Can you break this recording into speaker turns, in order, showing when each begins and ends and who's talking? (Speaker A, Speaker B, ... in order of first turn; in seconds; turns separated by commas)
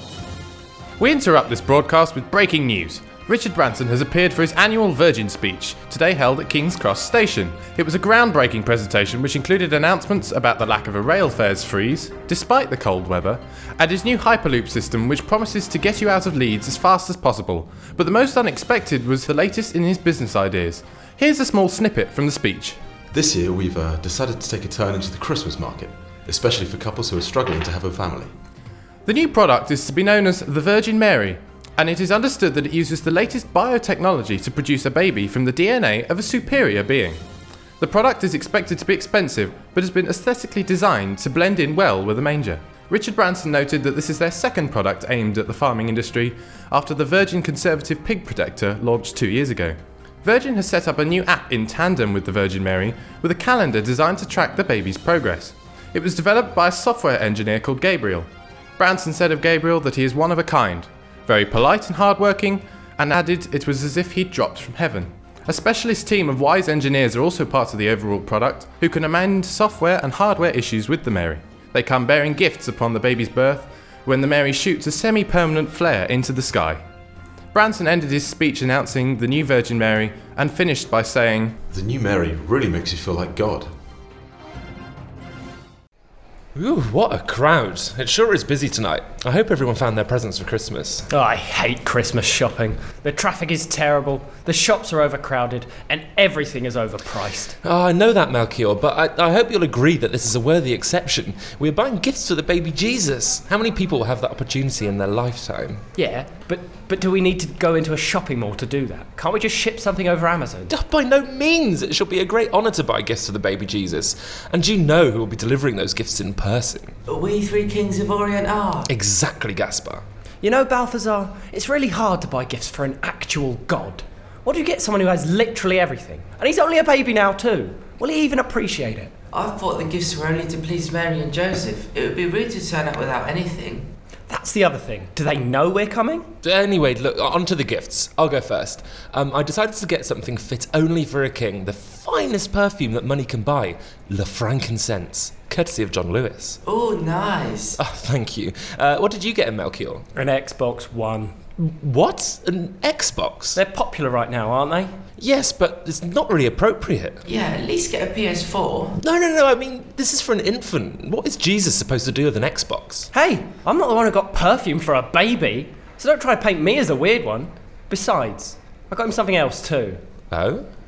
Speaker A: 1.0-22.8, Speaker B: 23.1-28.3, Speaker A: 29.1-37.2, Speaker A: 37.8-76.8, Speaker A: 77.5-81.5, Speaker B: 81.7-83.7, Speaker C: 86.5-91.1, Speaker D: 91.1-97.5, Speaker C: 97.6-105.8, Speaker D: 105.9-110.7, Speaker C: 110.7-116.9, Speaker E: 117.1-118.9, Speaker C: 118.8-120.0, Speaker D: 120.4-129.1, Speaker E: 129.3-133.9, Speaker D: 134.3-136.3, Speaker C: 136.4-146.6, Speaker E: 146.6-147.8, Speaker C: 147.8-150.1, Speaker D: 150.1-151.4, Speaker C: 151.6-153.6, Speaker D: 153.5-155.0, Speaker C: 155.2-157.2, Speaker E: 157.2-159.0, Speaker C: 159.0-163.1, Speaker D: 163.1-170.0, Speaker C: 170.3-170.7